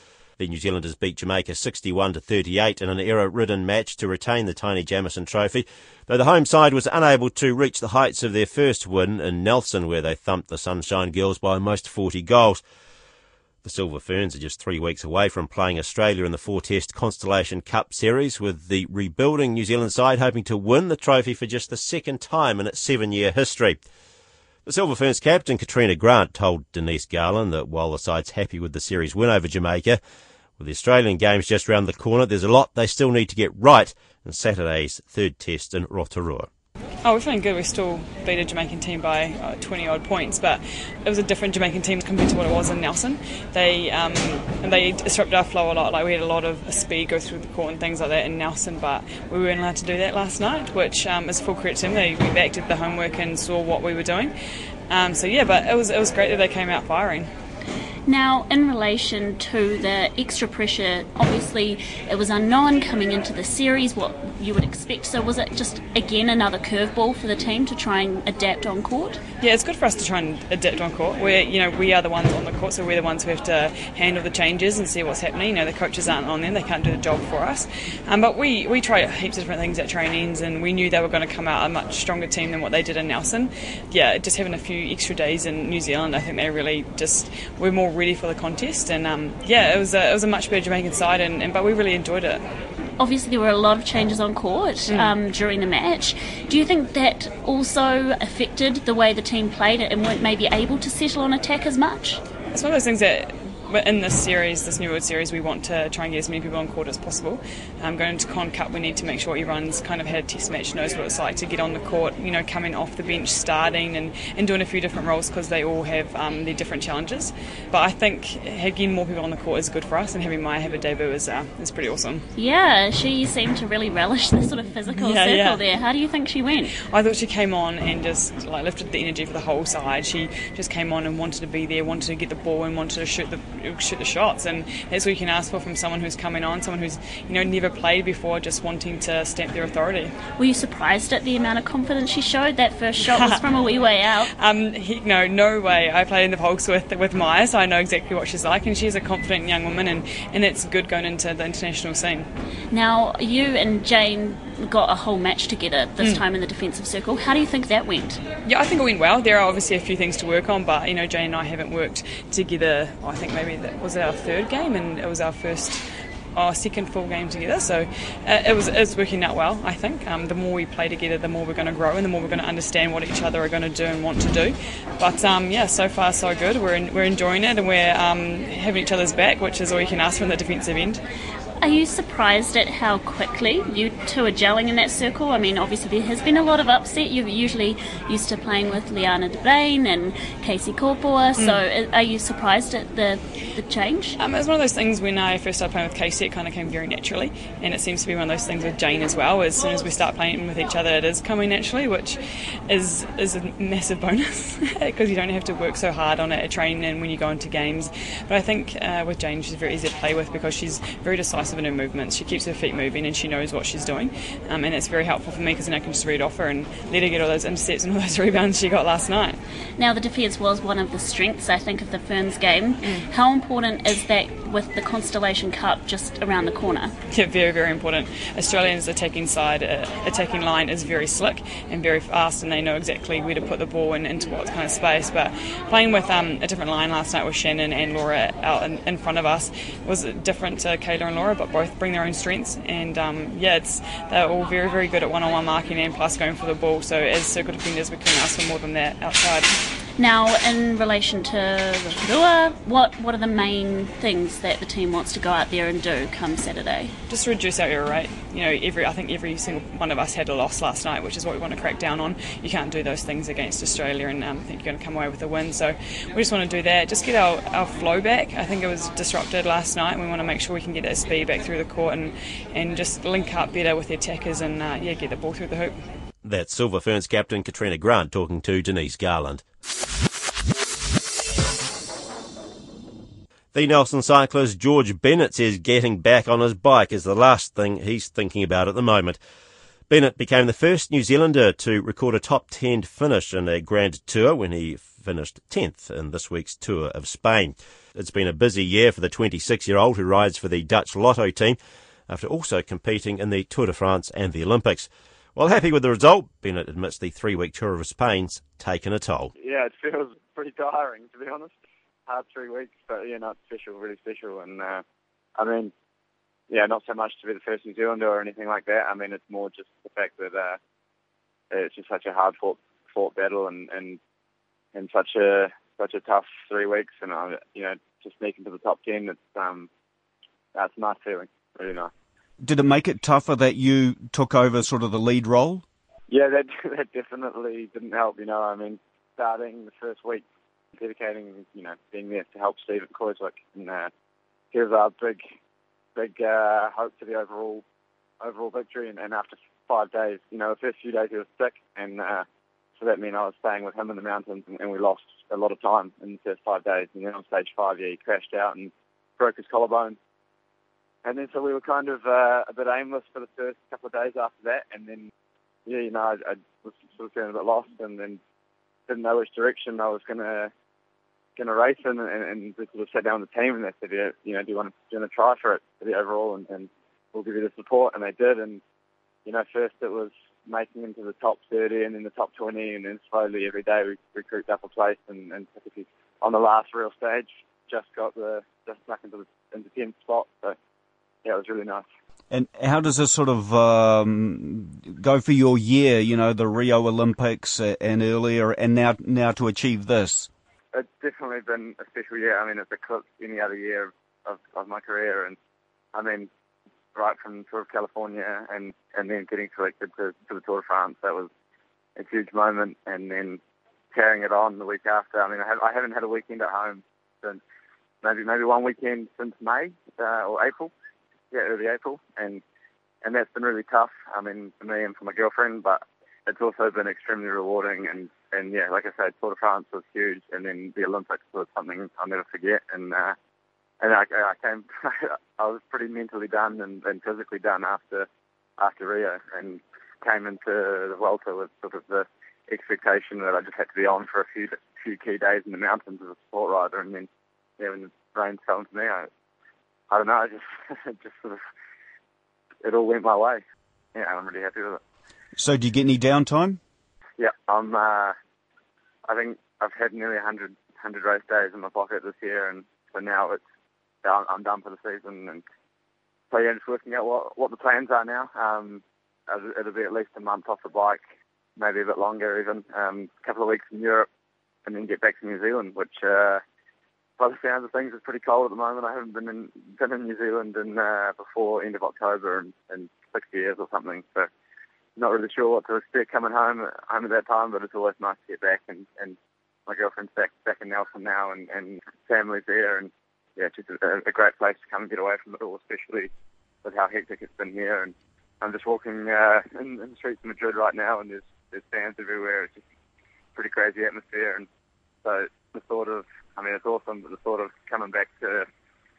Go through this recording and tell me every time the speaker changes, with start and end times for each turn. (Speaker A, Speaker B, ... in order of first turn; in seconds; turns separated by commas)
Speaker A: 0.4-12.6, Speaker A: 13.6-23.8, Speaker A: 24.7-30.0, Speaker A: 30.6-36.5, Speaker B: 37.0-54.3, Speaker B: 54.9-57.3, Speaker C: 58.1-69.2, Speaker B: 69.4-92.4, Speaker C: 93.0-102.2, Speaker B: 94.9-95.1, Speaker B: 102.5-122.2, Speaker C: 122.4-126.7, Speaker B: 124.9-125.6, Speaker B: 126.8-140.1, Speaker C: 140.4-144.3, Speaker B: 143.1-143.4, Speaker B: 144.3-152.3, Speaker C: 152.7-158.2, Speaker B: 158.5-181.0, Speaker C: 181.6-194.2, Speaker B: 194.2-219.4, Speaker C: 219.8-226.9, Speaker B: 222.8-223.1, Speaker B: 227.1-249.6, Speaker C: 250.0-256.9, Speaker B: 257.1-275.8, Speaker A: 276.2-279.4, Speaker A: 283.5-289.2, Speaker A: 289.9-301.6, Speaker A: 302.1-309.3, Speaker D: 309.4-311.5, Speaker D: 312.1-314.8, Speaker D: 315.4-315.7, Speaker D: 316.5-320.6, Speaker D: 321.5-324.0, Speaker D: 324.7-329.7, Speaker D: 330.6-331.9, Speaker E: 332.4-335.6, Speaker D: 336.1-340.2, Speaker D: 340.8-343.9, Speaker D: 344.5-345.2, Speaker D: 346.0-347.6, Speaker D: 348.2-352.2, Speaker D: 352.8-360.0, Speaker D: 361.1-365.1, Speaker D: 365.7-368.2, Speaker D: 368.9-370.5, Speaker D: 371.4-378.6, Speaker D: 379.3-390.6, Speaker D: 391.2-391.9, Speaker E: 392.3-400.3, Speaker D: 400.7-405.4, Speaker D: 405.9-406.3, Speaker D: 406.9-411.3, Speaker D: 412.0-413.4, Speaker D: 413.9-417.4, Speaker D: 418.0-420.7, Speaker D: 421.3-422.4, Speaker D: 423.0-433.2, Speaker D: 433.8-438.1, Speaker D: 438.6-447.1, Speaker D: 447.6-449.1, Speaker D: 449.9-451.4, Speaker D: 452.6-453.4, Speaker D: 453.9-454.8, Speaker E: 455.4-456.6, Speaker D: 457.2-458.2, Speaker D: 459.1-463.4, Speaker D: 464.0-465.4, Speaker D: 466.3-471.0, Speaker D: 471.6-474.1, Speaker D: 474.6-476.4, Speaker D: 477.2-484.3, Speaker D: 485.0-496.1, Speaker D: 496.6-502.6, Speaker D: 503.4-504.5, Speaker D: 505.0-508.5